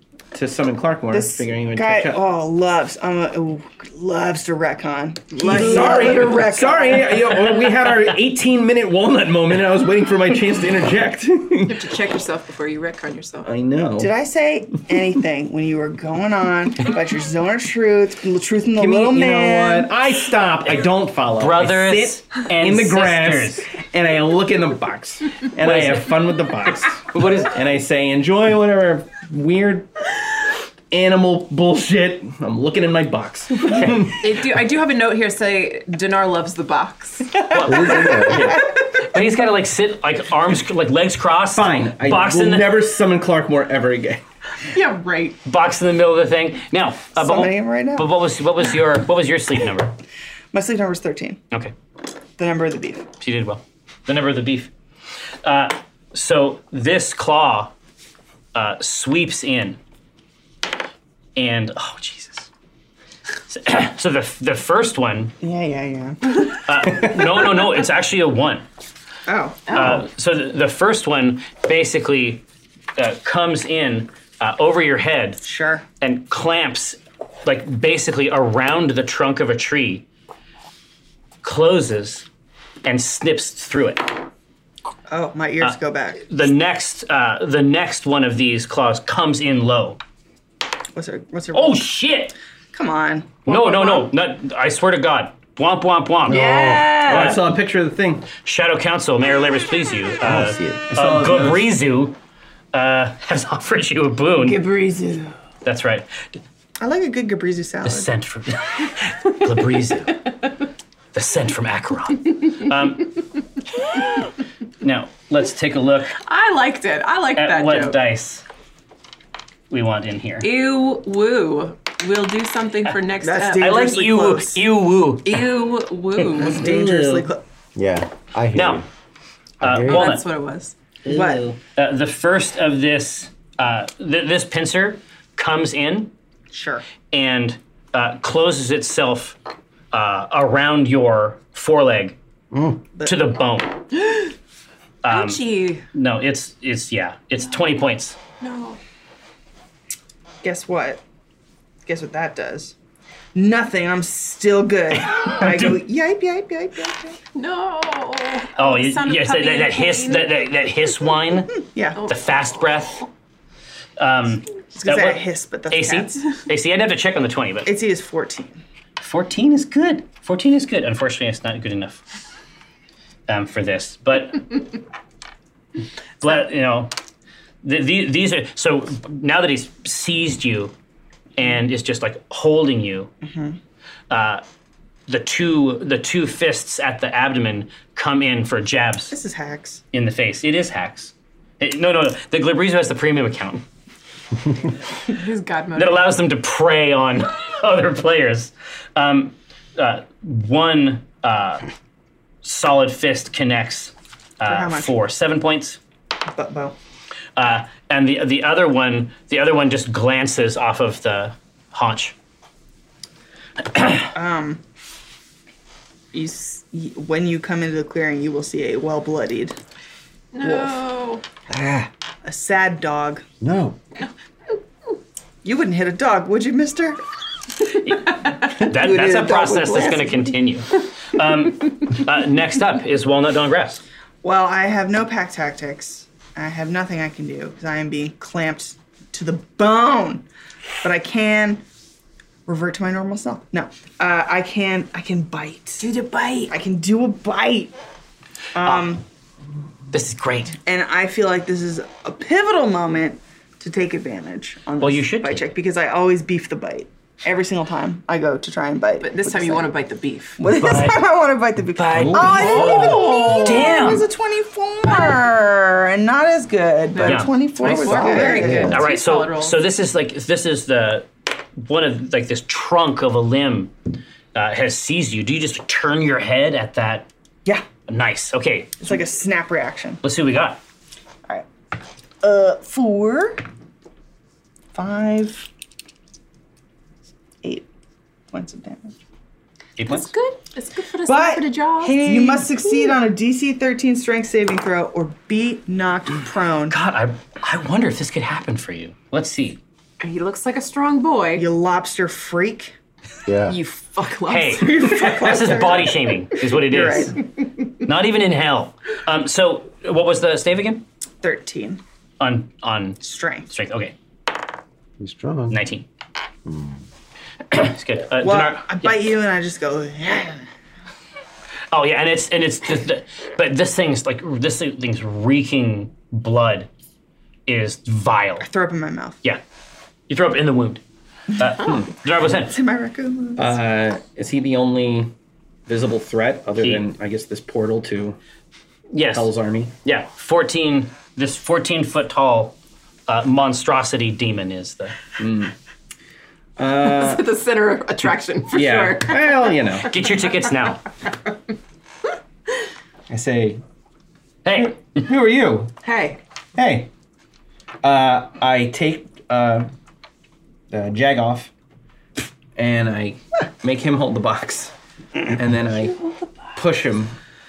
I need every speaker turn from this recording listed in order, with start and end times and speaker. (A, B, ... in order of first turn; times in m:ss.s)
0:00.3-0:02.2 A
0:01.1-0:07.6 B
0:05.4-0:11.9 A
0:05.6-0:06.1 C
0:11.7-0:13.5 C
0:13.4-0:14.1 A
0:14.0-0:19.9 B
0:18.8-0:30.0 A
0:21.4-0:23.7 D
0:25.6-0:26.1 D
0:27.1-0:27.5 D
0:30.9-0:34.4 A
0:34.2-0:38.3 C
0:37.5-0:38.4 D
0:37.6-0:38.6 E
0:38.3-0:38.6 A
0:39.0-0:42.8 D
0:41.5-0:44.2 A
0:44.7-0:45.4 C
0:45.4-0:50.0 D
0:47.2-0:48.1 B
0:50.5-0:51.4 B
0:52.4-0:53.1 B
0:53.2-0:54.7 D
0:55.4-0:57.7 D
0:58.5-0:59.8 D
1:01.4-1:02.5 D
1:03.5-1:05.4 D
1:05.4-1:06.6 B
1:06.5-1:08.6 D
1:09.3-1:09.6 B
1:09.7-1:10.0 C
1:09.7-1:12.4 D
1:13.0-1:15.4 D
1:15.4-1:15.8 B
1:16.0-1:20.1 D
1:21.4-1:22.3 D
1:22.8-1:24.2 D
1:25.1-1:26.3 B
1:25.6-1:30.0 D
1:31.0-1:31.9 B
1:31.5-1:32.4 D
1:32.7-1:34.1 B
1:33.5-1:36.5 D
1:36.3-1:37.1 E
1:36.3-1:37.4 C
1:37.0-1:38.3 A
1:38.4-1:42.2 D
1:40.2-1:40.9 E
1:40.9-1:41.7 A
1:42.7-1:44.6 D
1:44.4-1:45.4 C
1:45.6-1:46.1 D
1:46.8-1:48.1 B
1:47.8-1:50.3 D
1:51.1-1:53.2 D
1:54.8-1:56.2 D
1:56.2-1:58.0 C
1:57.4-1:58.4 D
1:59.7-2:00.5 D
2:00.4-2:03.8 C
2:03.2-2:04.6 B
2:03.6-2:05.5 D
2:05.2-2:06.6 C
2:06.4-2:07.4 B
2:06.5-2:07.3 A
2:07.8-2:08.9 E
2:08.5-2:08.8 D
2:09.6-2:10.1 E
2:09.6-2:10.2 D
2:09.9-2:10.8 C
2:11.0-2:11.6 A
2:11.1-2:11.5 B
2:11.8-2:16.1 D
2:16.5-2:16.8 B
2:17.1-2:19.4 D
2:19.9-2:22.2 D
2:22.5-2:22.8 E
2:23.0-2:23.3 B
2:23.0-2:23.8 D
2:24.0-2:24.3 C
2:25.0-2:28.2 D
2:25.1-2:25.8 C
2:28.4-2:28.8 C
2:30.4-2:31.0 B
2:31.9-2:32.7 B
2:33.4-2:37.2 B
2:35.2-2:35.7 D
2:37.4-2:40.4 C
2:38.6-2:43.0 D
2:41.6-2:42.0 B
2:42.0-2:42.4 C
2:44.0-2:47.7 D
2:44.7-2:46.3 B
2:47.6-2:48.6 B
2:49.0-2:52.1 D
2:53.3-2:54.7 D
2:56.2-2:56.9 D
2:57.6-3:00.7 D
3:01.4-3:03.1 D
3:03.2-3:03.6 B
3:04.1-3:04.4 D
3:05.1-3:09.2 D
3:09.1-3:09.8 B
3:09.9-3:13.6 D
3:15.1-3:16.1 C
3:15.8-3:21.7 D
3:22.4-3:25.8 D
3:24.4-3:25.0 B
3:26.3-3:26.8 B
3:27.4-3:32.2 D
3:33.7-3:34.0 D
3:34.1-3:34.6 B
3:36.1-3:39.6 B
3:40.3-3:41.2 C
3:40.4-3:40.8 B
3:41.5-3:41.9 E
3:42.2-3:43.2 B
3:43.4-3:43.8 E
3:45.4-3:47.0 B
3:47.8-3:53.8 D
3:48.4-3:50.4 B
3:54.2-4:00.2 B
4:00.8-4:01.6 B
4:02.5-4:05.8 B
4:05.8-4:06.5 C
4:06.5-4:07.7 B
4:08.6-4:09.0 B
4:09.9-4:10.6 D
4:10.6-4:19.7 B
4:14.8-4:15.4 D
4:19.0-4:20.4 C
4:20.4-4:28.8 B
4:20.5-4:21.0 D
4:21.8-4:24.1 D
4:21.9-4:23.0 A
4:22.3-4:23.8 C
4:26.9-4:29.6 C
4:27.0-4:27.3 D
4:27.9-4:28.8 E
4:28.6-4:33.7 D
4:34.3-4:37.1 D
4:37.9-4:38.9 D
4:38.8-4:40.0 B
4:40.0-4:40.6 D
4:42.2-4:43.4 B
4:44.7-4:45.5 B
4:48.3-4:49.0 B
4:49.8-4:50.1 D
4:49.8-4:52.9 C
4:51.1-4:56.8 B
4:56.7-4:59.6 D
5:00.0-5:01.5 C
5:01.4-5:02.8 B
5:03.3-5:03.6 E
5:03.5-5:04.9 C
5:04.3-5:07.2 D
5:04.7-5:07.2 B
5:07.8-5:10.8 D
5:11.2-5:11.8 B
5:12.2-5:14.0 D
5:13.0-5:13.5 B
5:15.0-5:15.6 E
5:15.5-5:15.9 D
5:16.5-5:16.8 E
5:17.5-5:19.0 D
5:18.2-5:20.4 B
5:21.7-5:26.7 D
5:27.5-5:28.5 D
5:28.4-5:29.2 B
5:30.1-5:30.8 D
5:31.4-5:32.6 D
5:31.6-5:31.9 A
5:32.2-5:33.6 B
5:33.4-5:35.1 A
5:35.7-5:38.2 A
5:36.6-5:36.8 D
5:38.9-5:45.0 D
5:39.1-5:39.7 A
5:45.2-5:45.5 A
5:46.6-5:47.3 A
5:46.8-5:49.6 C
5:48.5-5:49.9 A
5:49.8-5:50.8 D
5:53.1-5:53.6 A
5:54.4-5:55.1 D
5:54.6-5:55.7 A
5:55.8-5:56.2 C
5:56.6-5:56.9 A
5:57.8-5:59.7 A
6:00.7-6:01.5 A
6:02.6-6:04.7 A
6:05.3-6:06.0 A
6:06.6-6:07.1 A